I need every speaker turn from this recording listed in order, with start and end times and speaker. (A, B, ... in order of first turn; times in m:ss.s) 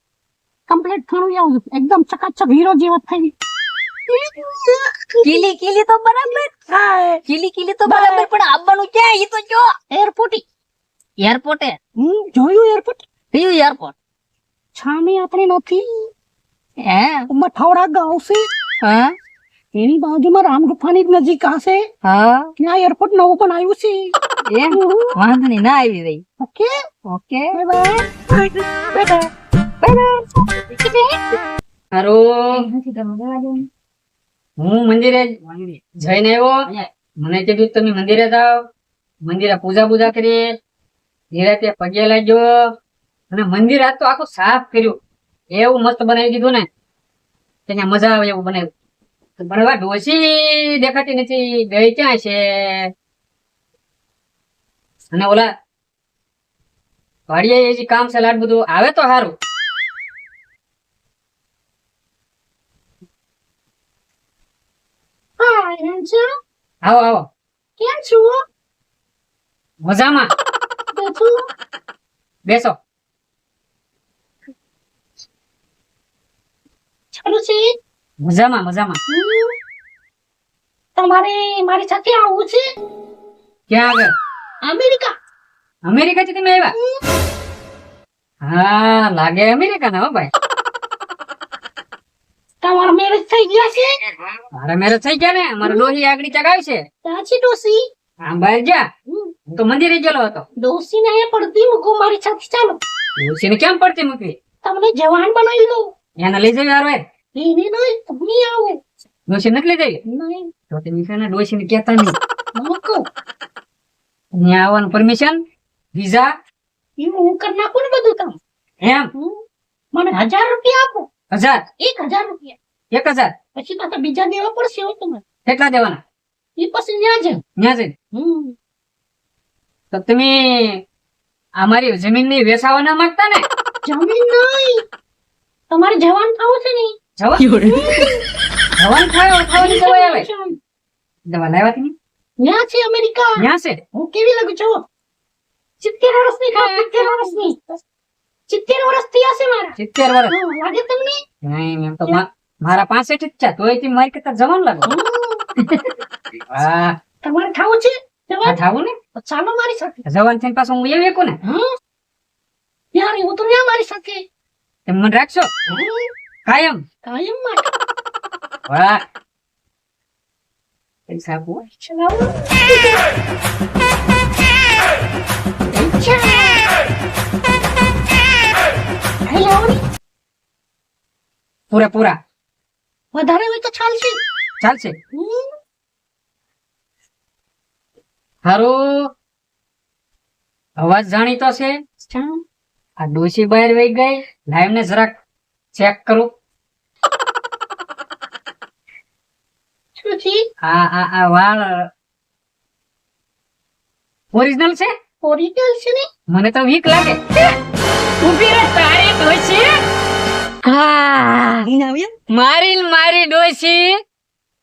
0:00.7-0:03.3 A
0:04.1-0:05.5 A
0:05.2-0:06.5 B
0:06.7-0:07.2 A
0:07.3-0:09.7 B
0:07.8-0:08.3 A
0:09.9-0:10.4 A
0:11.2-0:11.8 B
0:12.0-0:13.0 A
0:13.3-0:13.9 B
0:14.7-0:16.1 A
0:16.8-0:17.2 B
0:17.3-0:18.5 A
0:18.8-0:19.1 B
0:19.7-0:21.8 A
0:22.0-0:22.5 B
0:22.6-0:24.1 A
0:24.5-0:26.2 B
0:24.7-0:25.2 A
0:26.4-0:26.7 A
0:27.1-0:27.6 B
0:27.5-0:29.3 A
0:29.8-0:30.5 B
0:30.8-0:31.2 A
0:31.9-0:32.6 C
0:32.5-0:33.6 B
0:34.6-0:36.6 C
0:37.2-0:38.6 C
0:39.2-0:40.6 C
0:41.3-0:42.5 C
0:43.3-0:45.0 C
0:45.5-0:46.7 C
0:47.7-0:48.7 C
0:49.4-0:52.9 C
0:55.1-0:55.5 C
0:57.3-0:59.4 C
1:05.4-1:06.2 A
1:06.8-1:07.3 C
1:07.8-1:08.4 A
1:09.8-1:10.3 C
1:10.9-1:11.3 A
1:12.4-1:12.8 C
1:17.1-1:17.8 A
1:18.2-1:19.0 C
1:19.1-1:19.6 A
1:21.0-1:22.6 A
1:23.7-1:24.1 C
1:24.6-1:25.1 A
1:25.8-1:26.7 C
1:28.4-1:30.3 C
1:32.6-1:34.0 A
1:34.6-1:36.8 C
1:35.6-1:35.9 A
1:37.0-1:37.8 A
1:38.2-1:38.8 C
1:39.5-1:40.4 C
1:40.6-1:42.8 A
1:43.2-1:44.4 C
1:44.6-1:45.9 A
1:46.2-1:47.0 C
1:47.3-1:48.8 A
1:49.3-1:50.0 C
1:50.0-1:50.5 A
1:50.7-1:52.2 C
1:52.6-1:53.0 A
1:54.4-1:55.4 C
1:55.9-1:56.3 C
1:57.0-1:58.4 A
1:58.8-1:59.1 C
1:59.9-2:01.1 A
2:01.3-2:01.6 C
2:01.8-2:02.6 A
2:02.9-2:03.3 C
2:03.6-2:05.2 A
2:05.4-2:06.0 C
2:06.6-2:07.4 A
2:07.6-2:07.9 C
2:08.1-2:08.6 A
2:09.9-2:10.8 C
2:11.6-2:13.4 C
2:13.8-2:14.8 A
2:15.7-2:16.9 A
2:17.2-2:17.5 C
2:17.6-2:18.2 A
2:18.8-2:20.3 C
2:19.5-2:20.6 A
2:21.3-2:21.9 C
2:22.4-2:24.8 A
2:23.4-2:23.8 C
2:25.8-2:27.8 A
2:28.5-2:29.8 A
2:29.8-2:30.3 C
2:30.3-2:31.2 A
2:31.4-2:34.9 C
2:34.8-2:35.4 A
2:36.5-2:37.0 C
2:37.2-2:38.6 A
2:38.4-2:38.9 C
2:39.2-2:40.0 A
2:40.1-2:41.4 C
2:42.9-2:44.2 A
2:44.9-2:45.5 C
2:45.7-2:46.1 A
2:46.4-2:46.8 C
2:47.0-2:47.7 A
2:48.7-2:49.0 C
2:51.1-2:51.6 C
2:51.6-2:53.0 A
2:55.7-2:56.7 A
2:59.2-2:59.8 A
3:01.7-3:02.2 C
3:03.1-3:04.2 A
3:04.6-3:04.9 C
3:05.1-3:05.5 A
3:08.4-3:09.1 C
3:10.8-3:11.8 C
3:12.1-3:12.4 A
3:13.0-3:15.2 C
3:15.7-3:16.3 C
3:20.0-3:20.4 A
3:20.6-3:21.9 C
3:24.3-3:24.9 C
3:25.2-3:26.1 A
3:26.3-3:27.2 C
3:28.2-3:29.7 C
3:30.6-3:31.7 C
3:31.6-3:32.1 B
3:32.3-3:34.0 C